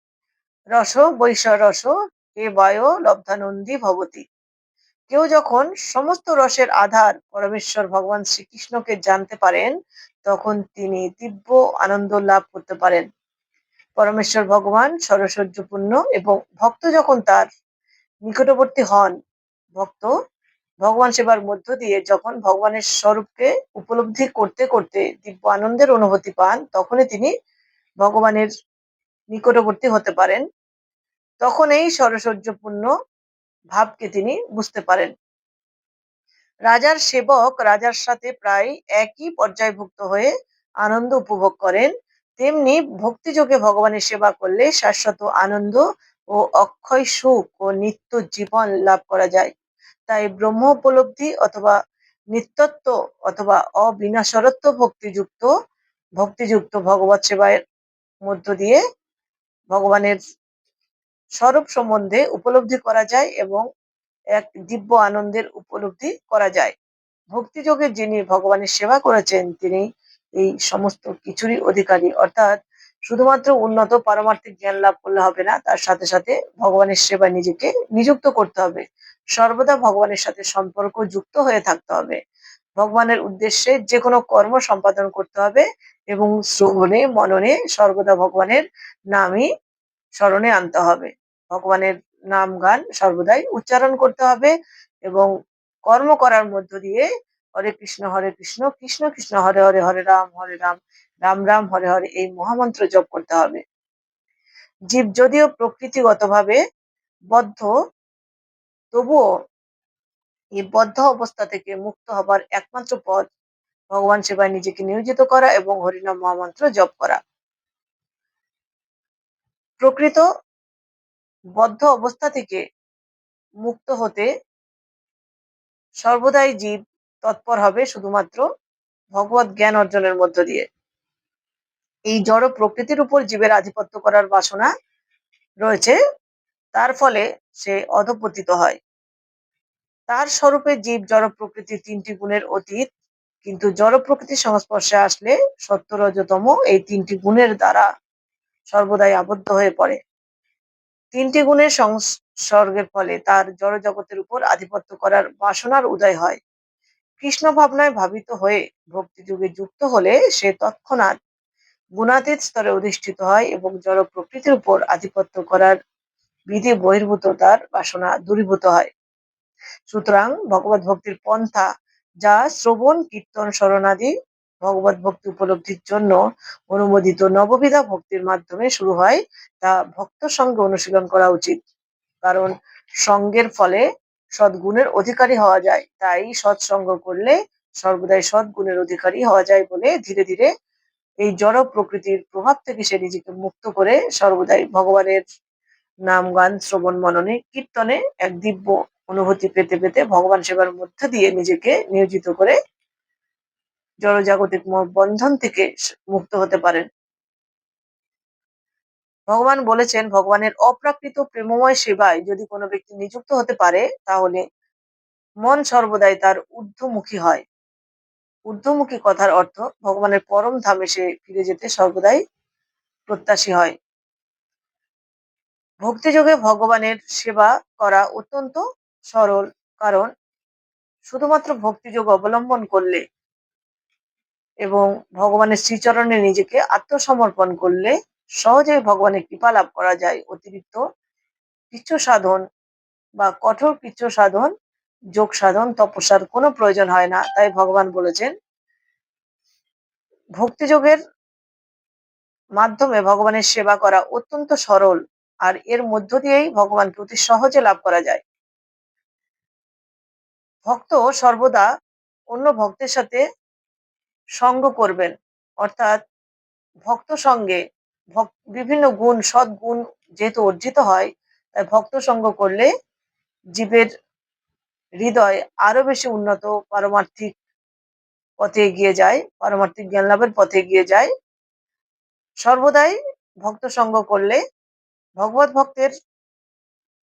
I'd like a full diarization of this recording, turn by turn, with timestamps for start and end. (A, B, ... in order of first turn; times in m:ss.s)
0:00.8-0:04.2 A
0:05.1-0:09.7 A
0:10.2-0:13.0 A
0:14.0-0:17.4 A
0:18.3-0:19.1 A
0:19.8-0:20.1 A
0:20.8-0:27.3 A
0:28.0-0:28.5 A
0:29.3-0:30.4 A
0:31.4-0:32.9 A
0:33.7-0:35.1 A
0:36.7-0:40.3 A
0:40.8-0:45.8 A
0:46.3-0:49.5 A
0:50.1-0:51.7 A
0:52.3-0:55.5 A
0:56.2-0:57.6 A
0:58.2-0:58.8 A
0:59.7-1:00.2 A
1:01.4-1:03.6 A
1:04.3-1:06.7 A
1:07.3-1:09.8 A
1:10.4-1:18.8 A
1:19.4-1:22.2 A
1:22.8-1:29.5 A
1:30.2-1:34.5 A
1:35.9-1:43.6 A
1:44.9-1:46.6 A
1:47.3-1:47.7 A
1:48.9-1:49.2 A
1:50.6-1:53.2 A
1:53.9-1:57.2 A
1:59.8-2:00.2 A
2:01.6-2:02.6 A
2:03.6-2:04.3 A
2:06.0-2:08.4 A
2:09.1-2:10.6 A
2:12.1-2:14.7 A
2:15.6-2:16.0 A
2:16.7-2:18.8 A
2:20.1-2:22.8 A
2:23.4-2:27.8 A
2:28.7-2:30.0 A
2:31.1-2:36.4 A
2:37.2-2:41.1 A
2:42.0-2:45.8 A
2:46.5-2:48.9 A
2:49.9-2:51.6 A
2:52.2-2:54.1 A
2:54.6-2:56.2 A
2:56.7-3:01.6 A
3:02.2-3:02.5 A
3:03.0-3:03.8 A
3:04.4-3:10.5 A
3:11.2-3:15.2 A
3:16.1-3:22.5 A
3:24.0-3:26.8 A
3:29.3-3:34.4 A
3:35.4-3:37.4 A
3:38.5-3:42.2 A
3:43.1-3:43.7 A
3:45.8-3:50.1 A
3:51.0-3:53.0 A
3:54.6-4:00.8 A
4:01.7-4:02.4 A
4:03.2-4:04.5 A
4:05.2-4:08.3 A
4:10.4-4:11.0 A
4:12.6-4:18.2 A
4:20.7-4:21.6 A
4:22.3-4:23.2 A
4:24.4-4:25.1 A
4:25.6-4:25.9 A
4:26.9-4:27.6 A
4:28.1-4:32.7 A
4:33.6-4:33.9 A
4:35.0-4:37.3 A
4:38.4-4:41.1 A
4:42.4-4:44.4 A
4:45.2-4:45.9 A